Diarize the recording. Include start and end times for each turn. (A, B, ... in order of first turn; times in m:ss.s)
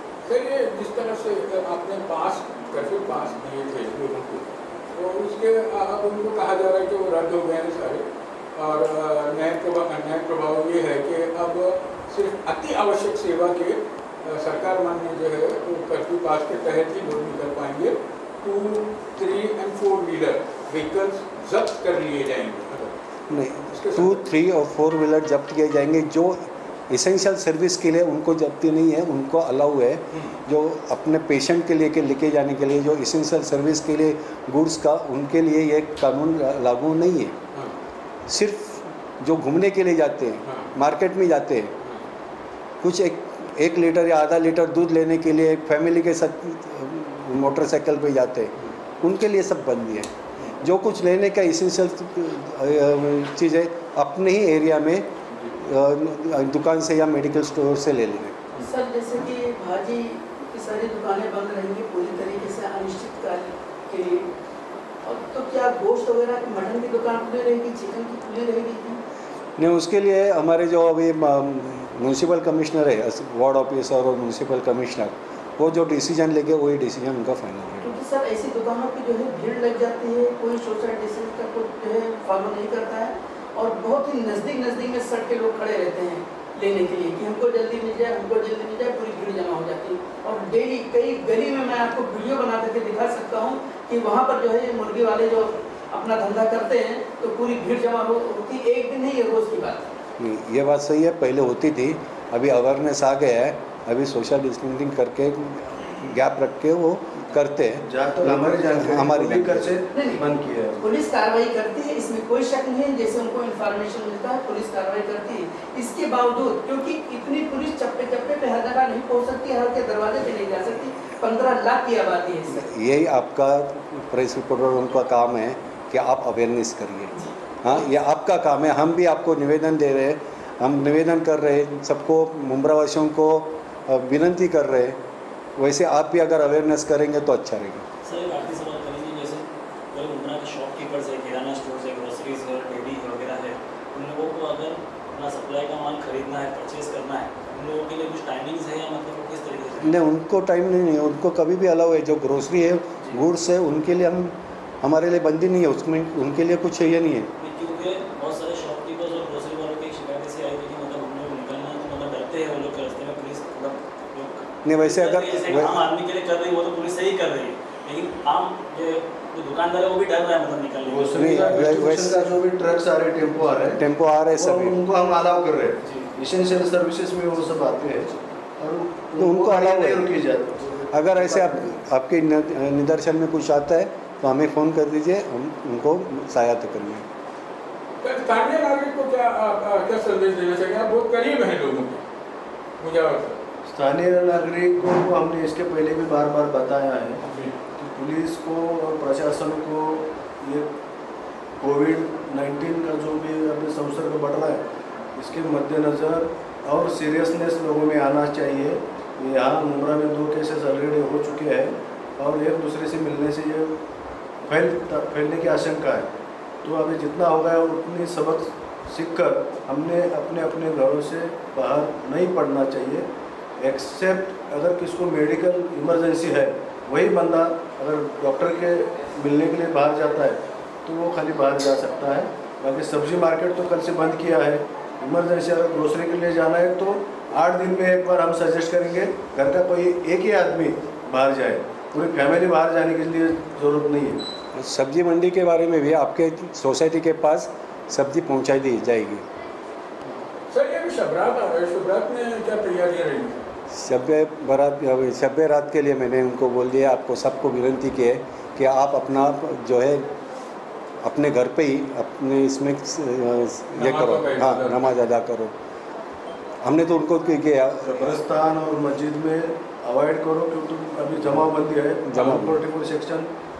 0:00.2-0:22.9 A
0:23.3-0:37.4 B
0:23.7-0:24.2 A
0:38.3-0:41.7 B
0:40.4-0:40.7 A
0:42.8-0:58.4 B
0:58.6-1:04.3 C
1:05.0-1:09.0 C
1:09.6-1:17.9 B
1:17.8-1:39.9 C
1:40.2-1:49.7 B
1:47.8-1:50.8 D
1:49.9-1:50.2 C
1:50.8-2:02.6 C
2:02.5-2:07.1 B
2:07.1-2:07.8 C
2:07.6-2:15.0 B
2:15.6-2:17.8 B
2:18.0-2:30.0 E
2:29.8-2:37.3 B
2:37.4-2:51.4 E
2:44.6-2:45.8 B
2:50.8-2:53.8 D
2:51.2-2:52.4 B
2:53.6-2:54.8 B
2:54.3-3:01.7 D
2:59.2-3:00.2 B
3:00.9-3:07.1 B
3:08.0-3:12.0 A
3:12.8-3:13.4 A
3:13.6-3:17.2 D
3:17.2-3:17.5 A
3:17.8-3:20.7 D
3:21.6-3:24.6 D
3:25.1-3:33.8 D
3:34.4-3:36.1 D
3:36.6-3:43.0 D
3:43.6-4:04.2 D
4:04.5-4:09.2 B
4:10.5-4:13.4 A
4:13.7-4:20.1 B
4:21.0-4:25.5 B
4:23.7-4:25.0 A
4:26.6-4:28.2 B
4:27.8-4:33.3 D
4:32.1-4:32.6 B